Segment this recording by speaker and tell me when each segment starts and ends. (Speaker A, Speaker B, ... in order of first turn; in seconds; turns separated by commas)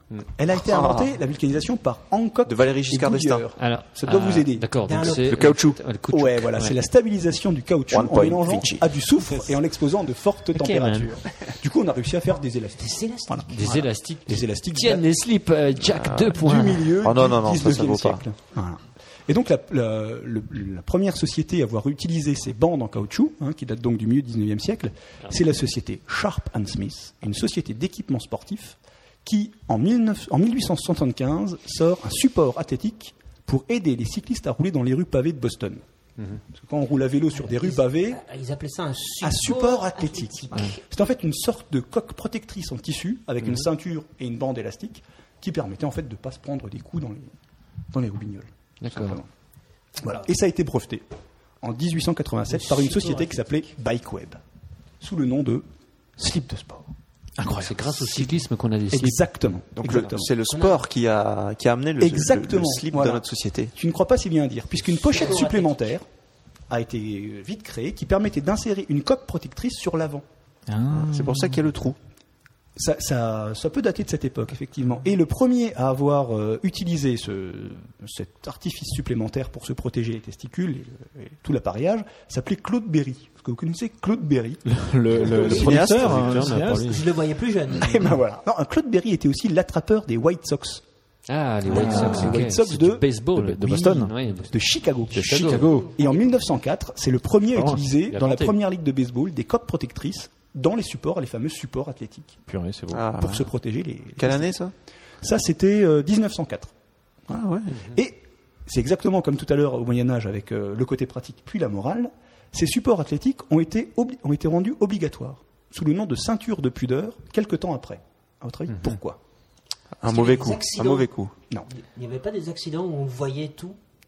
Speaker A: 0.4-4.7, Speaker B: 0.6-1.1, Speaker B: 2.5-3.5, Speaker C: 3.6-6.8, Speaker D: 4.8-5.5, Speaker B: 5.1-5.9, Speaker A: 6.1-15.1, Speaker B: 7.9-8.9, Speaker C: 10.5-11.2, Speaker D: 12.8-13.5, Speaker C: 13.5-16.7, Speaker B: 15.9-18.2, Speaker A: 16.4-35.8, Speaker A: 36.5-38.2, Speaker D: 37.3-40.8, Speaker A: 39.2-47.3, Speaker A: 47.9-49.3, Speaker C: 48.8-49.2, Speaker A: 50.0-51.0, Speaker A: 51.6-54.4, Speaker D: 52.5-53.7, Speaker A: 55.0-55.6, Speaker A: 56.2-56.9, Speaker E: 57.4-57.8, Speaker C: 57.5-59.2, Speaker A: 58.0-58.4, Speaker A: 58.9-60.3, Speaker B: 59.8-63.8, Speaker D: 60.5-60.8, Speaker A: 62.0-66.0, Speaker D: 64.9-66.0, Speaker A: 66.7-70.2, Speaker E: 70.7-71.6, Speaker B: 70.9-72.0, Speaker A: 72.8-86.2, Speaker E: 84.7-87.0, Speaker D: 85.2-85.8, Speaker B: 85.4-86.6, Speaker C: 85.6-87.0, Speaker D: 86.8-88.0, Speaker A: 87.8-90.8, Speaker C: 91.3-94.5, Speaker A: 91.7-102.4, Speaker E: 91.7-92.5, Speaker E: 93.3-94.1, Speaker C: 95.1-95.8, Speaker E: 95.1-95.9, Speaker E: 97.5-97.8, Speaker C: 98.1-98.6, Speaker E: 102.5-103.1, Speaker B: 102.9-103.5, Speaker A: 103.2-104.5, Speaker B: 104.2-104.7, Speaker A: 105.2-106.7, Speaker B: 107.3-107.8, Speaker A: 107.8-119.2, Speaker C: 118.7-118.9, Speaker B: 120.0-121.3, Speaker D: 120.0-121.1, Speaker D: 121.7-123.8